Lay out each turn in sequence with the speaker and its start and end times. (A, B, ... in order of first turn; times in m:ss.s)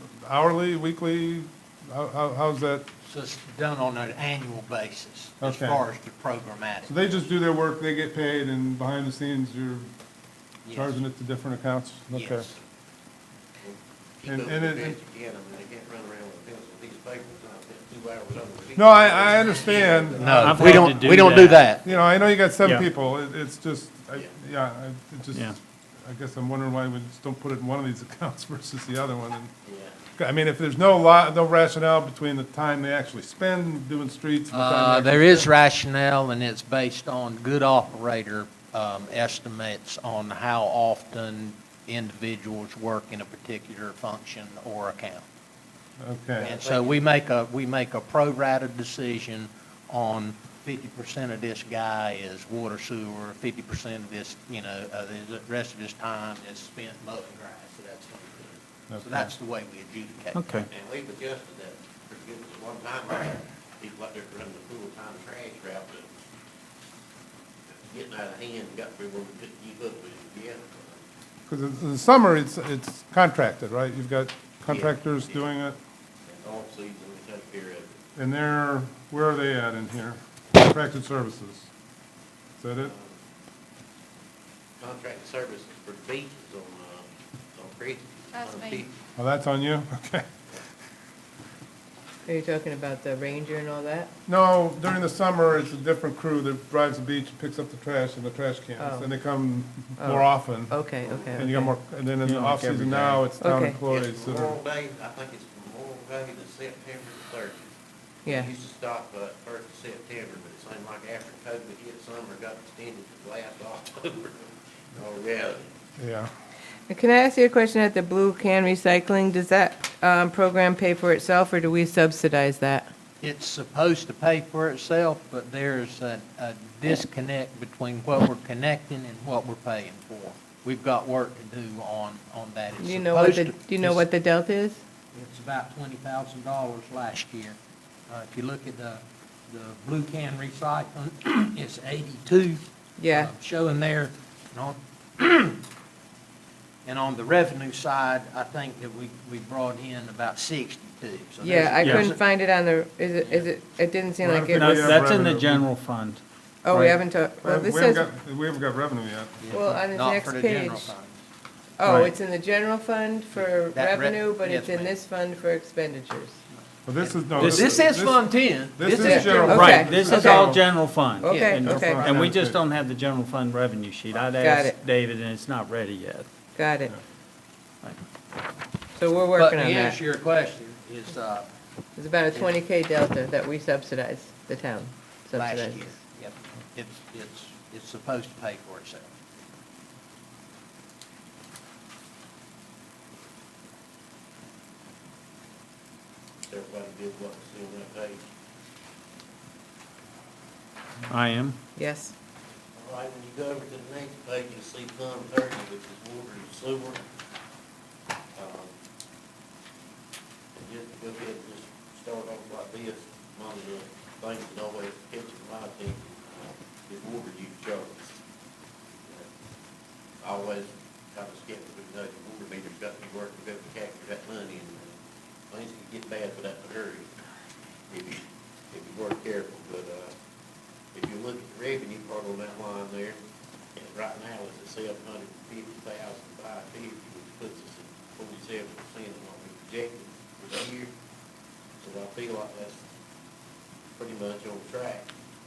0:00.2-0:02.9 A
0:03.0-0:06.9 B
0:05.4-0:05.8 A
0:06.8-0:09.9 A
0:10.6-0:11.0 B
0:10.7-0:12.5 A
0:12.1-0:12.5 B
0:13.6-0:21.2 C
0:14.3-0:15.0 A
0:18.8-0:21.0 A
0:19.7-0:21.8 B
0:20.4-0:21.6 D
0:21.8-0:29.5 A
0:29.6-0:30.0 C
0:30.2-0:35.5 A
0:34.5-0:45.2 B
0:46.0-0:46.6 A
0:46.4-1:00.4 B
0:58.9-0:59.3 A
1:00.4-1:00.7 D
1:00.7-1:06.1 C
1:07.8-1:11.0 C
1:11.5-1:15.8 A
1:14.7-1:15.3 C
1:16.3-1:18.0 C
1:18.2-1:21.7 A
1:22.6-1:22.9 A
1:22.8-1:23.2 C
1:24.8-1:28.9 C
1:29.2-1:30.3 A
1:32.3-1:34.1 E
1:34.3-1:40.7 A
1:38.8-1:39.1 E
1:40.0-1:41.7 E
1:41.0-1:41.5 C
1:41.3-1:44.6 A
1:42.2-1:43.3 D
1:43.4-1:43.8 E
1:43.9-1:47.7 C
1:48.3-1:55.7 C
1:56.0-1:56.3 A
1:56.9-2:02.9 E
2:03.2-2:14.0 B
2:12.8-2:14.8 E
2:15.1-2:17.6 B
2:18.1-2:25.6 B
2:23.0-2:23.3 E
2:26.8-2:32.2 B
2:31.4-2:35.0 E
2:31.8-2:32.1 D
2:33.2-2:33.5 B
2:34.2-2:35.6 A
2:34.5-2:37.0 D
2:36.6-2:38.0 E
2:37.4-2:39.4 A
2:39.4-2:41.1 B
2:39.5-2:40.9 E
2:41.8-2:46.4 E
2:41.8-2:42.1 A
2:43.4-2:45.0 B
2:46.9-2:50.6 A
2:47.0-2:50.5 B
2:49.0-2:50.6 E
2:49.4-2:56.3 D
2:51.2-2:52.1 E
2:51.6-2:52.6 A
2:54.4-2:54.8 E
2:56.6-2:56.9 E
2:59.0-3:00.0 E
2:59.4-3:01.5 B
3:02.0-3:06.0 E
3:05.4-3:09.1 B
3:16.5-3:18.2 C
3:21.1-3:21.6 D
3:21.8-3:22.1 E
3:22.8-3:27.0 C
3:28.4-3:28.7 C
3:30.6-3:38.2 C
3:40.2-3:47.1 C
3:47.9-3:50.1 C
3:50.9-3:53.2 C
3:53.8-4:00.9 C
4:01.8-4:02.8 C
4:04.0-4:05.1 C